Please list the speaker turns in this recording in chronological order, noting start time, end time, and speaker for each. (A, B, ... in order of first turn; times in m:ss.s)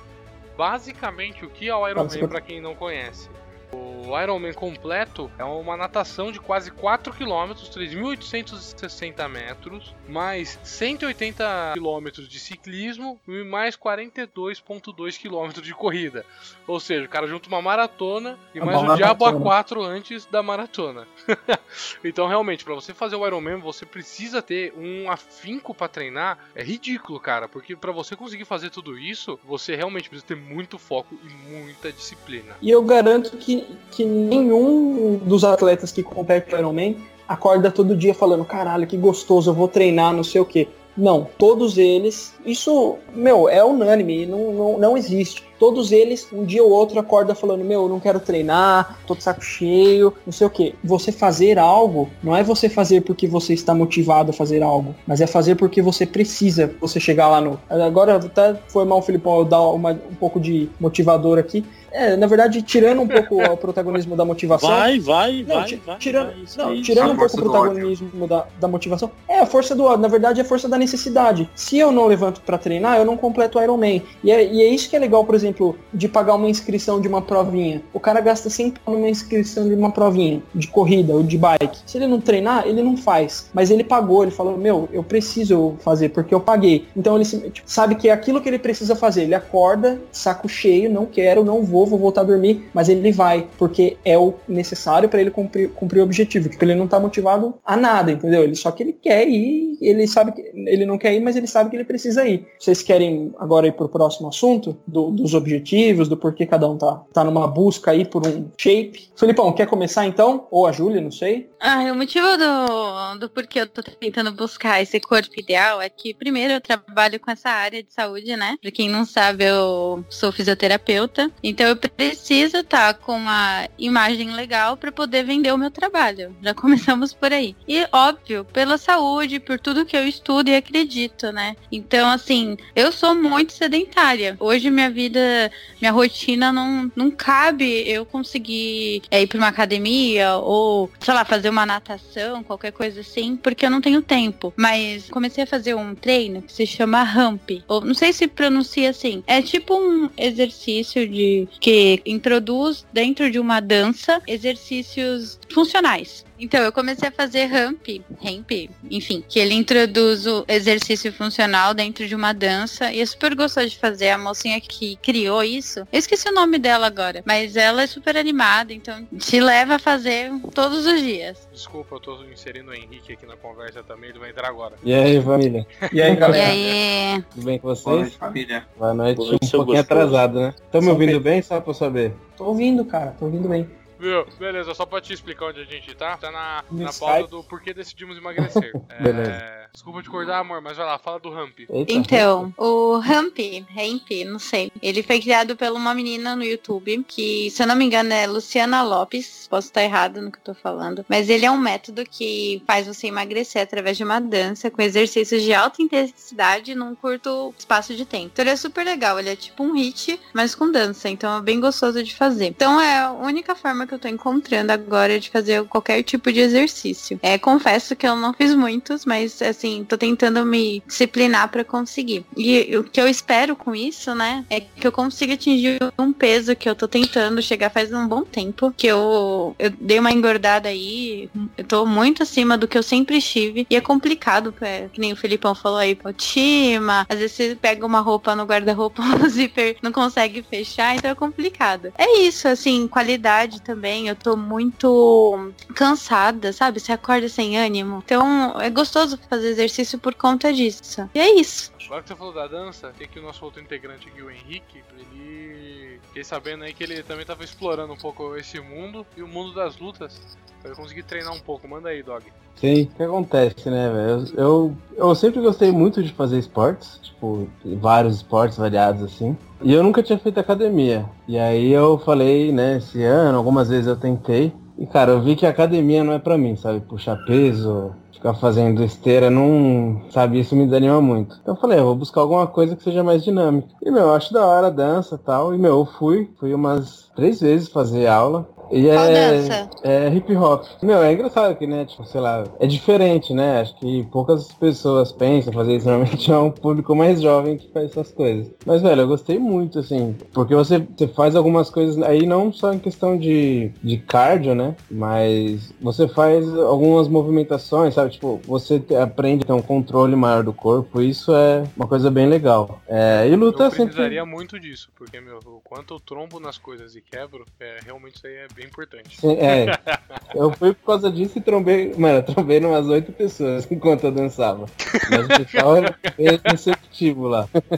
0:00.6-0:32.6 A
0:02.0-0:02.4 B
0:18.6-0:19.5 B
0:32.6-1:04.9 B
1:04.5-1:07.2 C
1:05.4-1:51.5 B
1:06.6-1:07.9 D
1:51.6-2:51.4 E
2:51.5-2:54.8 A
2:54.8-2:56.6 F
2:55.8-2:56.1 A
2:55.9-2:56.6 B
2:56.3-2:57.2 E
2:57.3-2:58.1 F
2:57.8-2:58.7 D
2:58.8-3:02.2 F
2:59.1-3:00.3 C
3:00.8-3:01.2 B
3:02.4-3:03.7 B
3:04.0-3:11.7 A
3:06.7-3:07.3 B
3:08.4-3:09.4 F
3:11.7-3:12.5 F
3:11.9-4:11.7 E
4:11.9-4:22.3 A
4:22.6-5:14.2 F
4:48.9-4:49.7 E
5:13.4-5:20.3 A
5:19.2-5:19.8 F
5:20.3-5:27.5 F
5:24.9-5:26.5 A